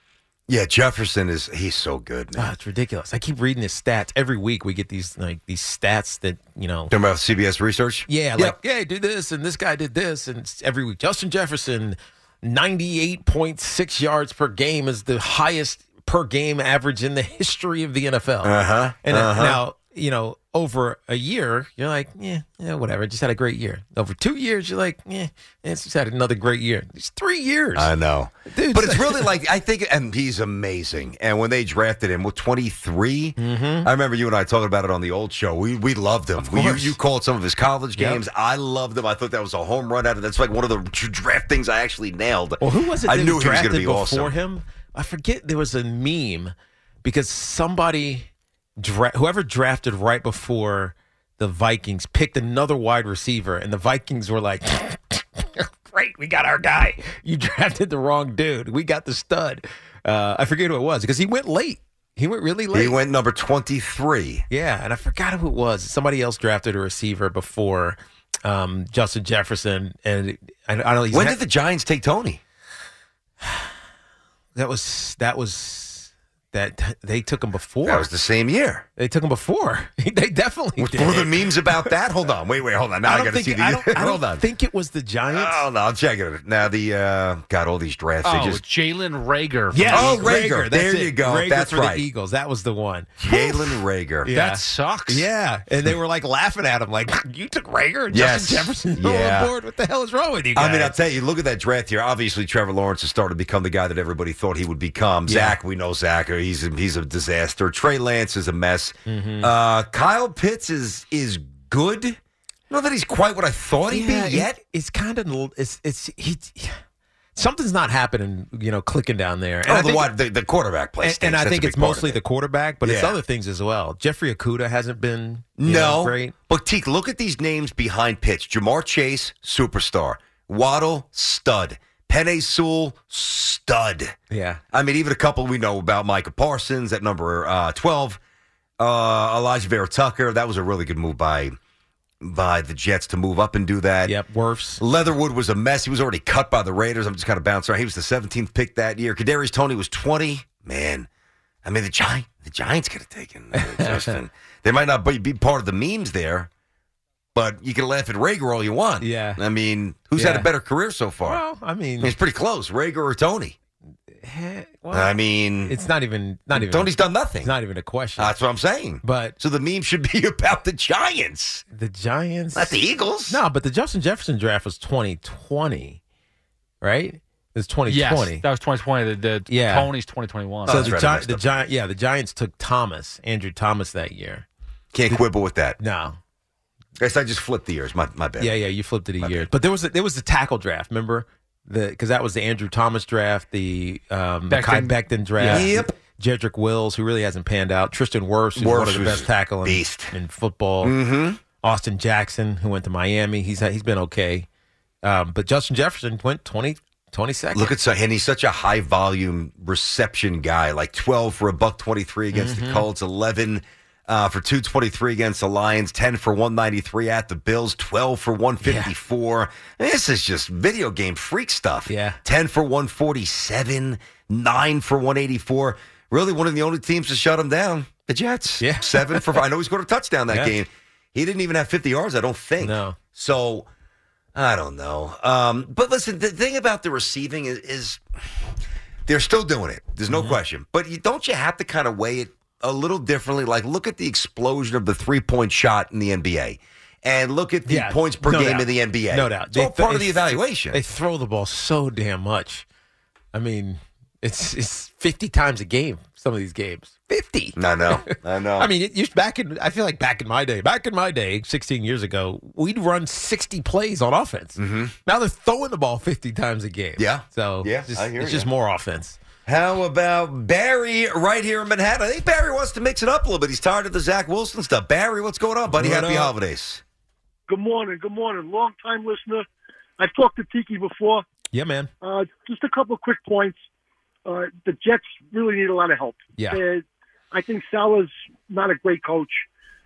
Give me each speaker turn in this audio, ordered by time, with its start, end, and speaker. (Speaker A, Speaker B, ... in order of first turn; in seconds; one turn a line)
Speaker A: 0.5-2.5
Speaker B: 2.4-6.9
Speaker A: 6.9-8.6
Speaker B: 8.1-27.9
Speaker A: 18.4-19.6
Speaker A: 27.8-44.4
Speaker B: 28.5-29.3
Speaker B: 33.4-33.9
Speaker B: 36.4-37.0
Speaker B: 38.0-38.2
Speaker B: 42.6-63.0
Speaker A: 62.7-64.5
Speaker B: 64.5-71.4
Speaker A: 71.1-72.4
Speaker B: 73.4-73.7
Speaker B: 74.6-78.1
Speaker A: 77.8-78.9
Speaker B: 79.0-81.9
Speaker A: 80.8-84.4
Speaker B: 83.0-85.7
Speaker A: 85.3-88.6
Speaker C: 88.2-90.2
Speaker B: 89.7-101.0
Speaker A: 89.9-92.0
Speaker A: 93.2-94.4
Speaker C: 94.3-95.3
Speaker A: 98.1-99.5
Speaker A: 100.5-112.2
Speaker B: 105.3-105.6
Speaker B: 109.1-109.5
Speaker A: 112.7-114.6
Speaker B: 113.9-116.8
Speaker B: 117.3-120.1
Speaker A: 119.7-122.2
Speaker B: 121.0-126.3
Speaker A: 122.8-123.2
Speaker A: 125.6-134.1
Speaker B: 134.3-134.6
Speaker A: 134.7-138.2
Speaker A: 138.8-141.6
Speaker A: 142.2-144.2
Speaker B: 144.1-144.8
Speaker A: 144.8-151.1
Speaker A: 151.6-156.5
Speaker B: 153.6-154.1
Speaker A: 157.3-161.4
Speaker B: 159.0-159.4
Speaker B: 160.2-160.5
Speaker B: 161.2-162.2
Speaker A: 162.0-163.6
Speaker B: 164.2-168.3
Speaker A: 164.9-165.8
Speaker A: 166.5-167.5
Speaker A: 168.2-171.6
Speaker B: 169.0-169.3
Speaker B: 171.7-176.0
Speaker A: 172.6-173.4
Speaker B: 176.8-178.4
Speaker C: 177.9-180.8
Speaker B: 179.5-179.9
Speaker B: 180.7-184.5
Speaker A: 180.7-181.4
Speaker A: 184.9-185.8
Speaker B: 185.8-186.2
Speaker A: 187.0-188.6
Speaker B: 188.4-201.0
Speaker A: 189.2-189.5
Speaker C: 194.5-195.7
Speaker A: 195.4-195.9
Speaker A: 198.6-200.1
Speaker A: 200.8-201.4
Speaker B: 201.6-204.5
Speaker B: 205.0-207.7
Speaker A: 207.5-233.7
Speaker B: 212.3-212.9
Speaker B: 218.6-218.9
Speaker B: 221.9-222.2
Speaker B: 228.6-229.4
Speaker B: 232.6-233.0
Speaker A: 234.3-238.0
Speaker A: 239.1-250.8
Speaker B: 240.1-240.4
Speaker B: 247.7-252.7
Speaker B: 253.3-269.2
Speaker A: 257.6-258.7
Speaker A: 264.6-264.9
Speaker A: 267.0-268.5
Speaker A: 269.5-276.8
Speaker B: 275.7-276.3
Speaker D: 277.5-279.5
Speaker D: 280.0-281.2
Speaker B: 281.5-281.9
Speaker D: 282.0-283.6
Speaker D: 284.2-289.5